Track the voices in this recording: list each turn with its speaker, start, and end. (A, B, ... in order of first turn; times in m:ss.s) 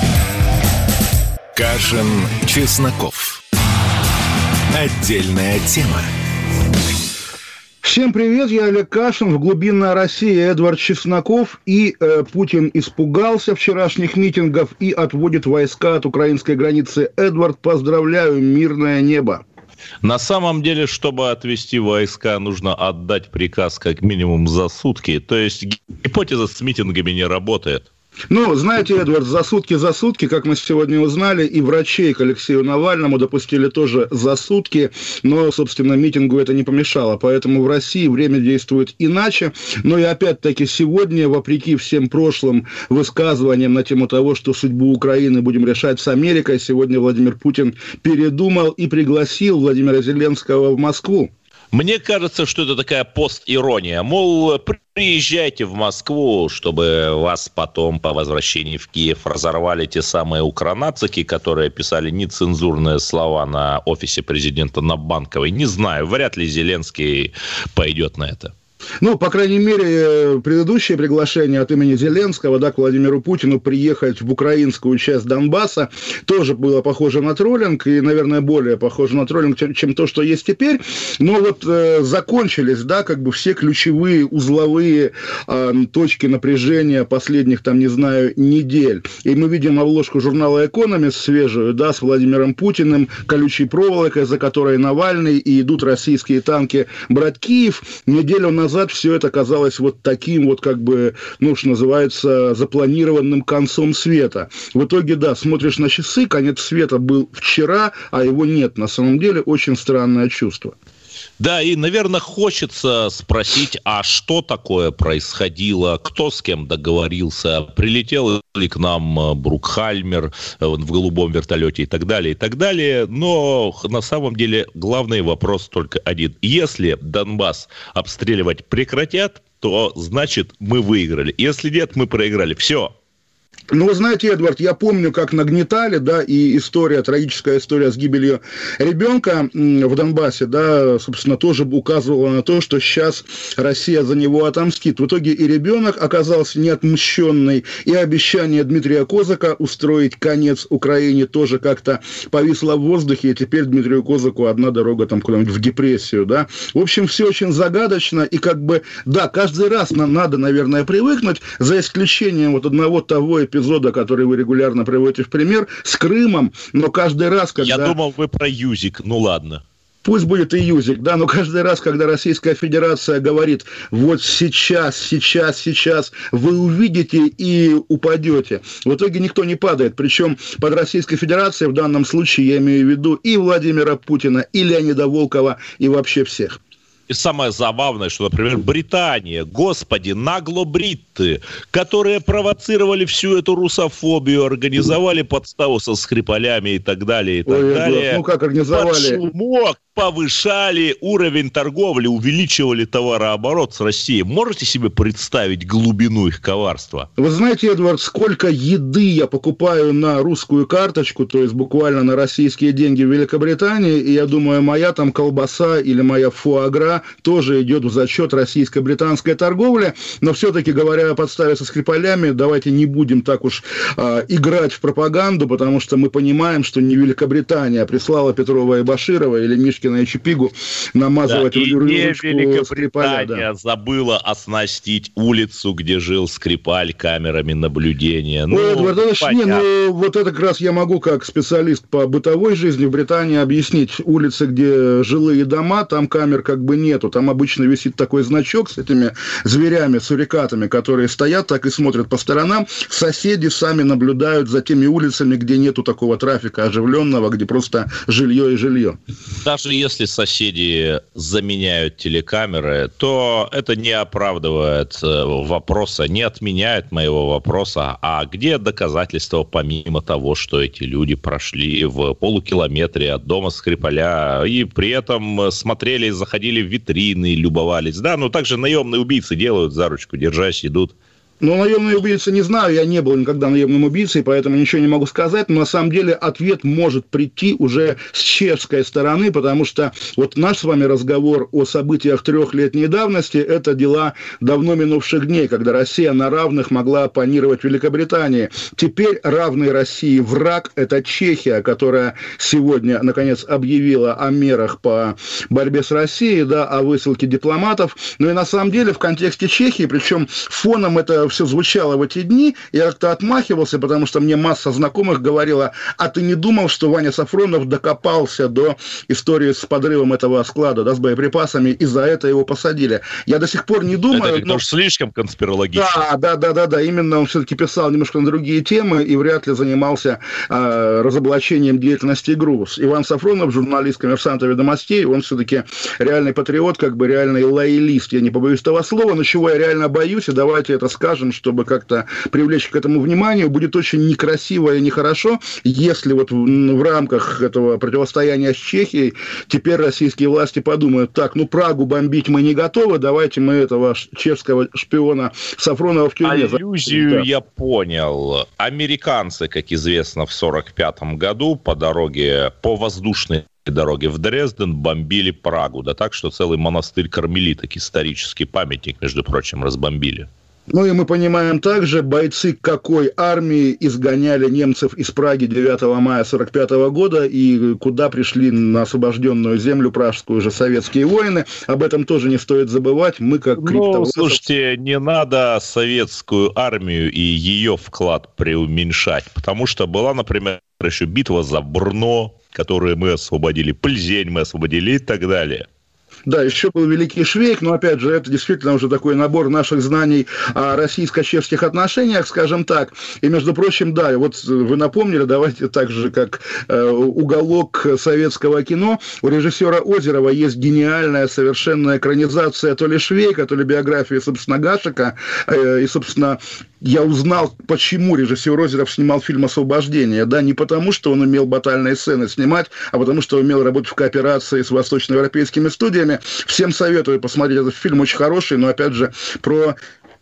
0:01.5-0:03.4 A
0:04.7-0:06.1 A
0:07.8-0:19.4 B
0:20.0-0:27.9 C
0:28.3-0:51.3 B
0:51.7-1:08.5 C
1:09.0-1:50.8 B
1:51.4-2:12.9 C
2:13.7-2:48.0 B
2:47.6-2:49.6 C
2:50.0-3:06.6 B
3:07.1-3:27.1 C
3:17.5-3:19.2 B
3:27.2-3:53.4 B
3:51.3-3:59.6 C
3:58.5-4:19.0 B
4:19.4-4:40.9 C
4:41.4-5:24.6 B
5:24.1-5:25.9 C
5:25.8-5:57.3 B
5:56.2-6:10.3 C
6:10.7-6:24.4 B
6:23.6-6:35.7 C
6:36.3-7:09.8 B